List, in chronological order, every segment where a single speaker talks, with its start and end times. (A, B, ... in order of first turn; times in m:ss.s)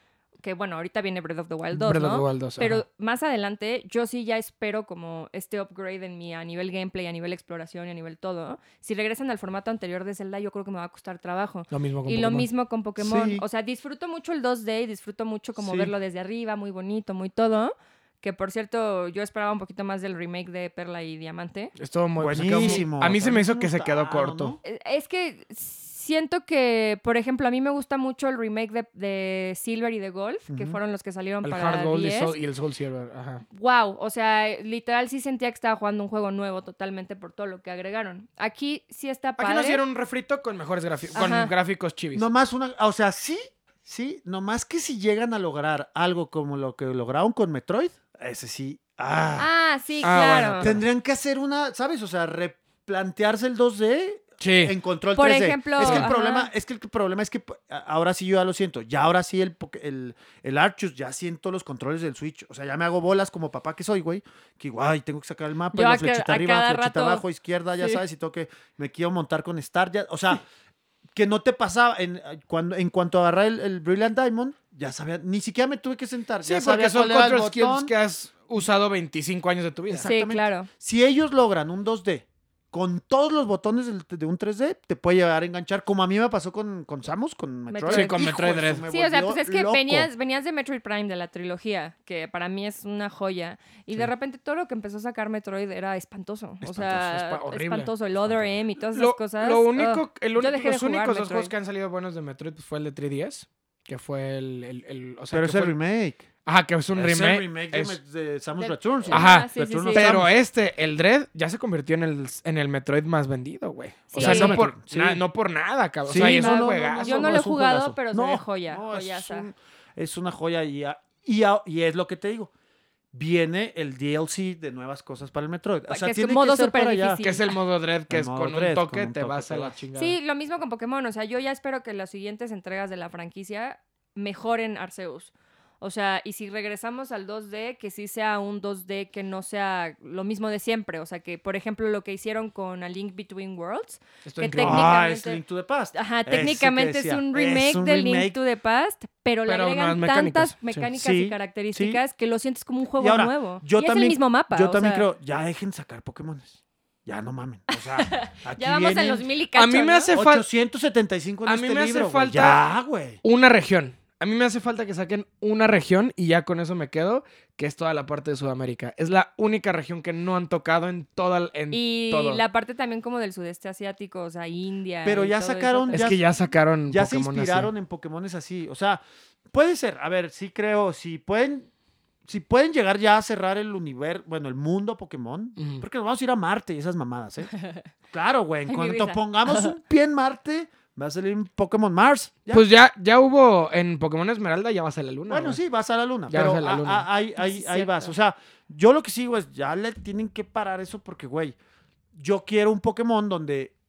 0:00.4-0:21.7 A
0:01.7-0:02.8 B
0:11.7-0:12.5 B
0:13.0-0:13.4 C
0:15.6-0:15.9 C
0:21.8-0:24.6 B
0:22.2-0:24.6 C
0:22.6-0:22.8 A
0:24.6-0:32.3 A
0:30.5-0:30.8 C
0:31.4-0:33.4 B
0:33.5-0:39.8 A
0:39.4-0:42.3 B
0:41.1-0:41.5 A
0:42.1-0:49.5 C
0:49.4-0:50.7 A
0:50.0-0:50.8 B
0:50.6-1:10.4 C
0:54.4-0:54.7 B
0:55.2-0:56.5 A
0:55.8-0:56.1 B
1:05.7-1:07.2 A
1:11.1-1:17.9 C
1:16.4-1:20.1 B
1:19.9-1:30.1 C
1:20.0-1:20.7 A
1:27.7-1:41.5 A
1:27.9-1:28.8 B
1:36.6-1:36.9 C
1:36.7-1:37.9 B
1:38.9-1:45.8 B
1:45.3-1:46.2 C
1:46.4-1:48.0 B
1:46.9-1:50.3 C
1:48.6-1:50.1 A
1:49.1-1:57.3 B
1:54.1-1:54.6 A
1:54.2-1:55.2 C
1:56.0-2:02.5 C
1:56.2-1:59.5 A
2:03.1-2:07.2 C
2:05.9-2:07.5 A
2:07.2-2:10.2 B
2:08.1-2:09.8 C
2:10.0-2:25.4 A
2:24.2-2:24.9 B
2:24.6-2:28.3 C
2:25.9-2:35.1 A
2:29.5-2:30.9 B
2:30.9-2:32.0 C
2:33.0-2:39.3 C
2:37.7-2:40.1 A
2:39.5-2:40.4 B
2:40.1-2:43.2 C
2:41.4-2:42.6 B
2:43.2-2:52.4 B
2:51.7-2:56.1 A
2:55.0-2:56.2 C
2:55.9-2:57.7 B
2:56.9-3:01.7 C
3:02.2-3:07.5 C
3:05.6-3:05.8 B
3:07.5-3:07.9 A
3:08.1-3:12.7 C
3:08.7-3:09.7 A
3:12.5-3:15.6 B
3:15.3-3:21.6 C
3:16.3-3:17.1 B
3:17.4-3:18.1 A
3:22.1-3:23.7 C